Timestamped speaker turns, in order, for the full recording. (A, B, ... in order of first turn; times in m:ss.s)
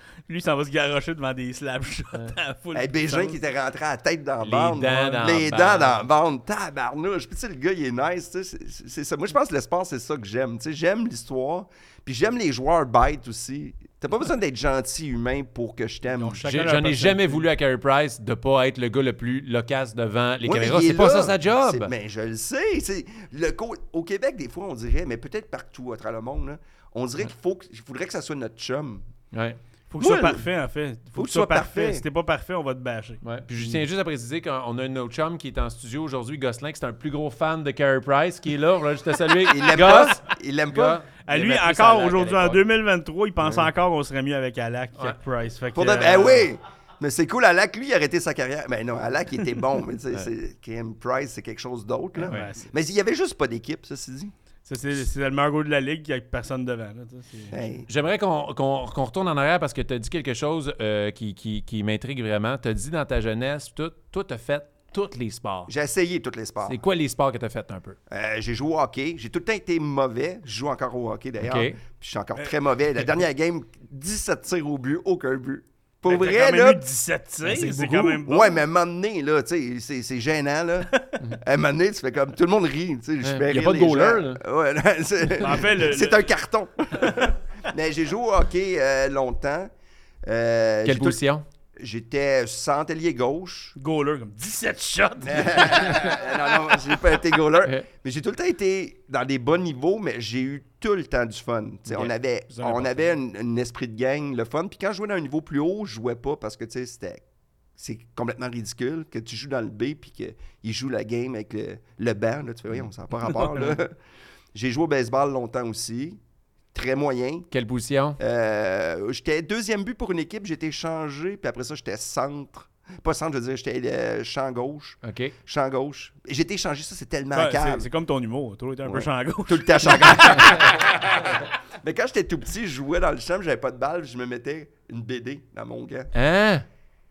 0:00.3-0:03.4 A
0:02.7-0:16.5 B
0:04.4-0:06.0 C
0:16.1-0:17.4 A
0:16.4-0:21.9 C
0:20.4-0:29.0 B
0:29.3-0:29.6 C
0:29.9-0:33.8 A
0:30.0-0:30.4 B
0:31.1-0:32.0 B
0:33.2-0:42.6 C
0:39.3-0:41.0 B
0:41.2-0:46.5 A
0:45.7-0:54.3 B
0:52.2-0:52.5 C
0:52.3-0:52.7 A
0:54.7-0:57.5 A
0:57.5-0:57.9 B
0:57.9-1:05.7 C
1:05.7-1:06.8 B
1:06.6-1:08.0 C
1:08.1-1:16.8 B
1:11.4-1:11.8 C
1:16.0-1:18.6 A
1:17.4-1:18.2 C
1:18.2-1:29.7 B
1:23.2-1:24.4 C
1:25.4-1:26.3 A
1:30.2-1:31.2 B
1:30.8-1:31.4 C
1:31.8-1:33.7 B
1:33.8-1:36.3 A
1:35.2-1:47.2 B
1:35.8-1:36.1 C
1:37.6-1:37.9 C
1:42.5-1:43.1 A
1:47.8-1:53.9 B
1:54.5-1:56.2 B
1:56.7-1:57.5 B
1:57.5-1:58.2 C
1:58.2-2:07.9 B
2:05.0-2:05.3 C
2:07.3-2:10.8 A
2:08.8-2:16.1 B
2:16.1-2:16.6 C